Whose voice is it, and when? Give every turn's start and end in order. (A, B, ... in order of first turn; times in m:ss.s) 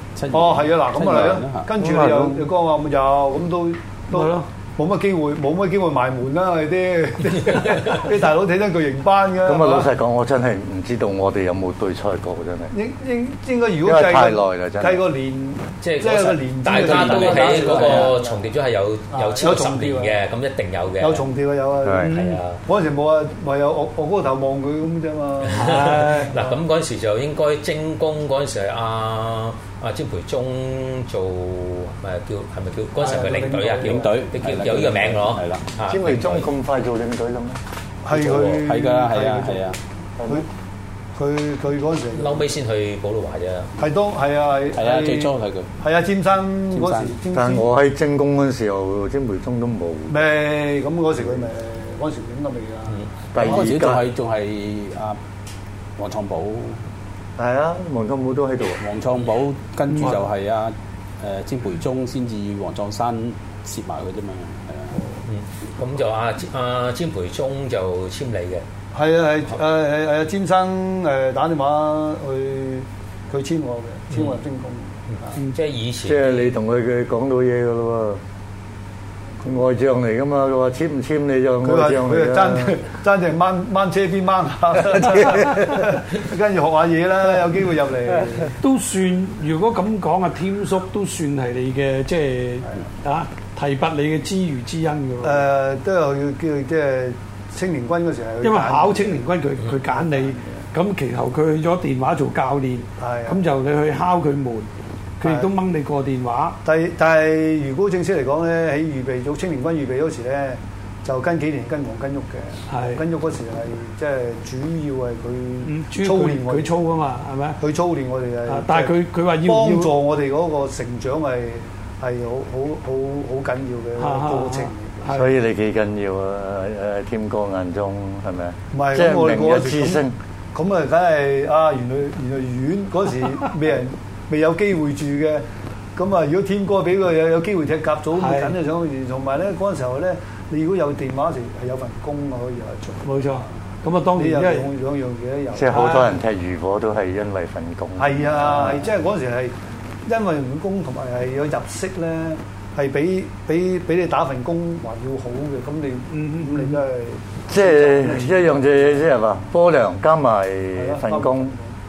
0:00.2-0:01.7 A
0:00.3-0:09.9 B
0:01.8-0:02.5 C
0:04.1-0:04.5 D
0:09.4-0:12.7 C
0:12.7-0:18.5 B
0:13.8-0:15.0 C
0:15.8-0:21.3 E
0:16.8-0:18.1 A
0:19.1-0:20.2 B
0:21.0-0:26.6 B
0:21.8-0:22.2 C
0:22.1-0:22.6 E
0:22.1-0:22.4 D
0:25.5-0:36.5 E
0:25.6-0:26.4 D
0:33.0-0:34.0 D
0:33.1-0:33.9 B
0:33.9-0:35.6 A
0:35.9-0:37.6 C
0:38.0-0:39.7 B
0:38.1-0:39.8 A
0:40.2-0:40.4 C
0:41.2-0:42.5 B
0:42.2-0:43.7 E
0:43.8-0:47.7 B
0:44.7-0:45.7 A
0:46.7-0:47.2 A
0:47.3-0:50.2 C
0:50.1-0:53.7 B
0:53.3-0:54.0 C
0:53.4-0:55.2 A
0:56.0-0:56.8 A
0:57.4-0:58.8 C
0:58.8-1:05.2 A
0:59.9-1:00.2 D
1:05.2-1:08.6 E
1:08.9-1:15.5 B
1:15.1-1:16.6 E
1:16.0-1:18.2 C
1:19.4-1:22.8 C
1:21.6-1:28.6 B
1:25.1-1:25.6 C
1:28.6-1:35.4 D
1:35.2-1:39.2 B
1:38.4-1:44.7 D
1:40.0-1:40.4 B
1:43.0-1:43.4 B
1:45.2-1:46.6 D
1:45.2-1:45.5 B
1:46.6-1:56.8 B
1:52.7-1:53.0 D
1:55.6-1:57.6 D
1:57.6-2:05.1 B
1:58.5-1:59.9 D
2:04.0-2:05.2 D
2:05.1-2:10.2 C
2:08.7-2:10.0 B
2:10.5-2:15.4 B
2:16.0-2:23.5 B
2:18.2-2:18.5 D
2:23.0-2:24.7 D
2:24.2-2:26.0 B
2:25.5-2:28.8 C
2:25.7-2:26.1 D
2:28.0-2:29.5 B
2:30.1-2:39.0 B
2:36.1-2:36.8 D
2:37.5-2:41.6 C
2:40.8-2:41.8 B